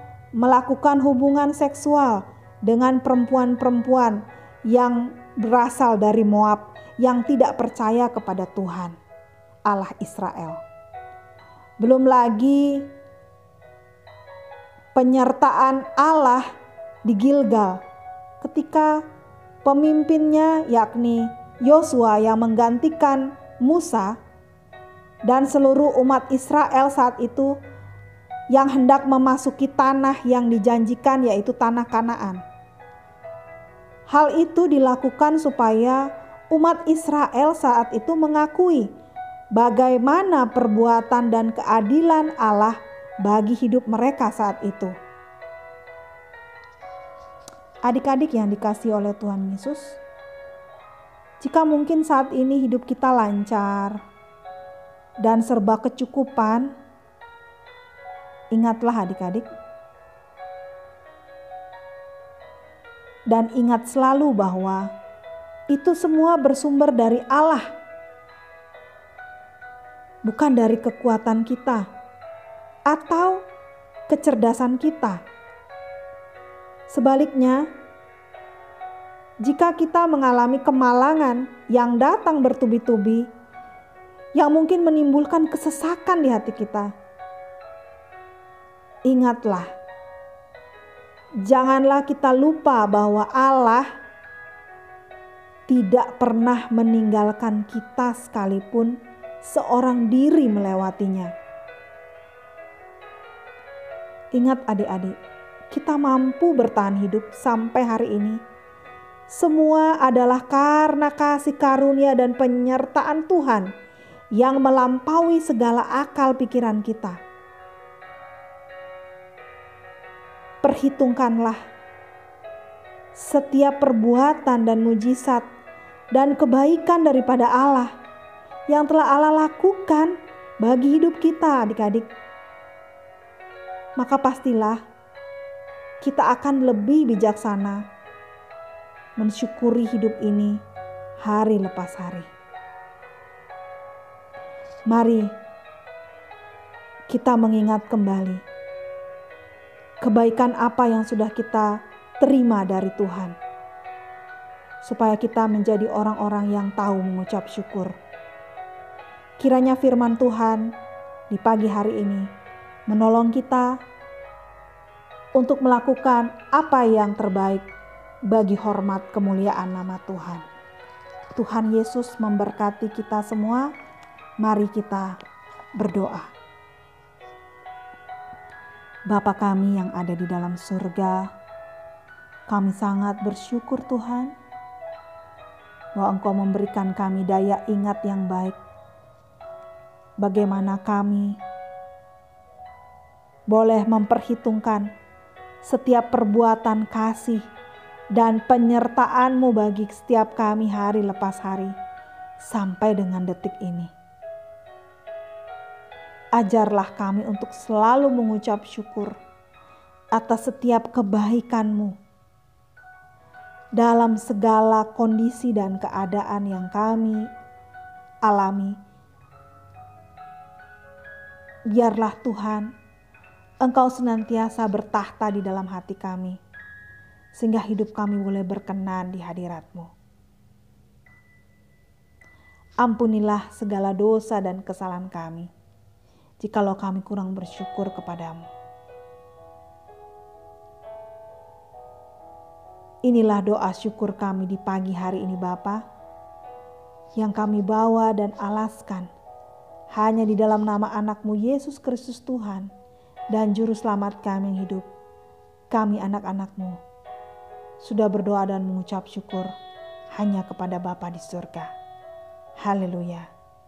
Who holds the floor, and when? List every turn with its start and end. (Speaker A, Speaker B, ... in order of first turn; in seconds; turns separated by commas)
Speaker A: 0.3-8.9, Speaker A: 9.7-10.6, Speaker A: 11.8-12.9, Speaker A: 14.9-16.4, Speaker A: 17.0-17.8, Speaker A: 18.4-19.0, Speaker A: 19.6-24.2, Speaker A: 25.2-27.6, Speaker A: 28.5-32.4, Speaker A: 34.1-38.9, Speaker A: 39.5-44.9, Speaker A: 47.8-50.0, Speaker A: 51.4-54.0, Speaker A: 55.2-56.7, Speaker A: 58.5-59.5, Speaker A: 63.3-64.9, Speaker A: 65.7-67.7, Speaker A: 70.2-71.8, Speaker A: 72.9-73.4, Speaker A: 74.1-75.2, Speaker A: 76.9-77.7, Speaker A: 79.4-83.3, Speaker A: 84.3-86.9, Speaker A: 89.0-89.7, Speaker A: 91.4-93.9, Speaker A: 95.7-101.3, Speaker A: 104.3-105.2, Speaker A: 105.7-108.4, Speaker A: 109.3-113.7, Speaker A: 114.3-117.2, Speaker A: 120.6-121.6, Speaker A: 123.1-125.4, Speaker A: 126.1-127.9, Speaker A: 128.7-132.1, Speaker A: 134.0-134.8, Speaker A: 136.0-137.8, Speaker A: 139.2-140.6, Speaker A: 141.2-142.3, Speaker A: 144.9-145.3, Speaker A: 147.1-148.4, Speaker A: 150.0-153.3, Speaker A: 154.8-157.9, Speaker A: 159.4-160.7, Speaker A: 161.3-162.3, Speaker A: 162.9-163.8, Speaker A: 165.3-167.7, Speaker A: 168.3-170.4, Speaker A: 171.3-173.7, Speaker A: 174.4-175.2, Speaker A: 175.8-176.3, Speaker A: 179.1-181.3, Speaker A: 182.5-184.3, Speaker A: 185.9-188.6, Speaker A: 190.2-191.4, Speaker A: 193.5-194.9, Speaker A: 195.6-197.5, Speaker A: 198.1-201.7, Speaker A: 202.4-203.9, Speaker A: 206.3-209.2, Speaker A: 210.1-211.9, Speaker A: 213.8-217.3, Speaker A: 218.2-218.8, Speaker A: 221.7-222.7, Speaker A: 223.6-226.4, Speaker A: 227.3-229.9, Speaker A: 232.8-235.5, Speaker A: 236.4-238.5, Speaker A: 243.0-245.8, Speaker A: 247.2-249.1, Speaker A: 249.9-252.7, Speaker A: 253.3-254.9, Speaker A: 255.7-256.8, Speaker A: 257.8-259.5, Speaker A: 260.1-261.7, Speaker A: 262.6-263.3